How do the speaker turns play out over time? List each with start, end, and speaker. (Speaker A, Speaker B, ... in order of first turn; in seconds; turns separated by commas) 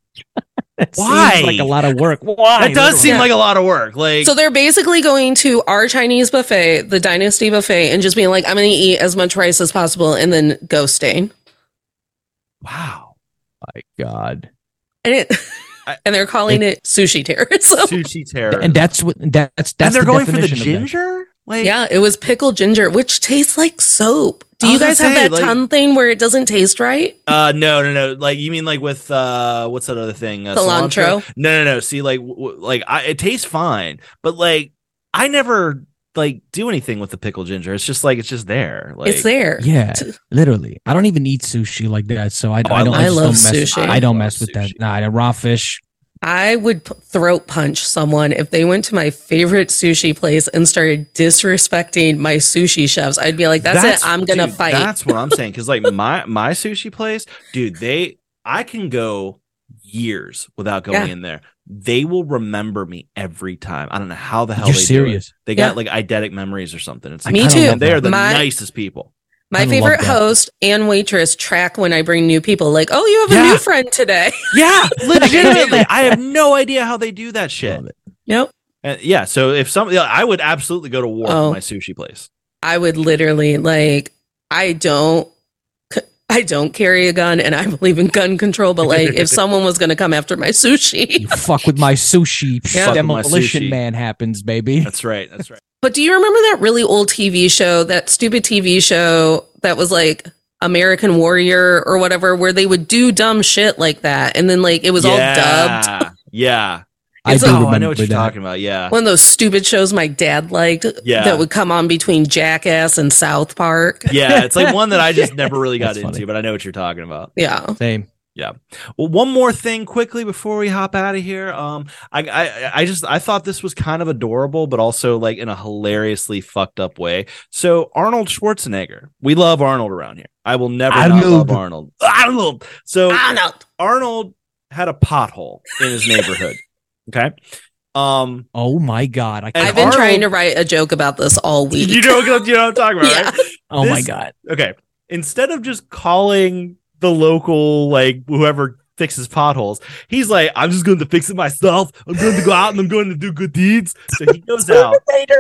Speaker A: 0.8-3.3, Speaker B: 1.0-1.7, Speaker B: 2.6-4.3, Speaker C: 3.0-3.3, Speaker C: 4.2-11.3, Speaker B: 12.6-13.1, Speaker A: 13.6-14.5, Speaker C: 15.1-18.0, Speaker B: 17.8-18.9, Speaker A: 18.5-20.9, Speaker B: 19.8-21.7, Speaker C: 21.6-27.3, Speaker B: 24.6-25.6, Speaker B: 27.3-39.3, Speaker C: 30.5-31.2, Speaker C: 39.0-40.1, Speaker A: 39.6-45.8, Speaker B: 42.6-44.8, Speaker C: 42.9-44.0, Speaker C: 46.2-55.3, Speaker B: 53.6-69.1, Speaker A: 64.6-65.3, Speaker A: 67.3-68.0, Speaker C: 67.3-68.5, Speaker C: 69.5-74.6, Speaker A: 69.6-70.2, Speaker B: 73.3-73.6, Speaker B: 74.5-77.8, Speaker C: 75.1-75.8, Speaker A: 75.2-76.2, Speaker A: 77.7-77.9, Speaker B: 78.8-82.3, Speaker C: 81.2-81.6, Speaker C: 82.6-85.3, Speaker C: 85.9-91.4, Speaker B: 88.9-89.4, Speaker A: 91.2-94.9, Speaker C: 92.7-93.0, Speaker B: 92.8-93.8, Speaker B: 94.8-95.6, Speaker C: 95.8-106.0, Speaker B: 105.0-108.9, Speaker A: 107.2-108.3, Speaker C: 107.3-107.6, Speaker C: 108.9-114.1, Speaker B: 111.0-111.5, Speaker B: 114.1-117.3, Speaker A: 114.3-116.2, Speaker C: 117.4-117.8, Speaker A: 117.8-118.1, Speaker B: 118.4-133.3, Speaker A: 130.9-131.6, Speaker C: 133.1-133.6, Speaker B: 133.8-137.4, Speaker B: 137.9-138.5, Speaker A: 138.5-140.0, Speaker C: 139.6-142.4, Speaker B: 139.6-140.3, Speaker B: 141.8-155.0, Speaker C: 143.0-143.4, Speaker A: 143.7-144.3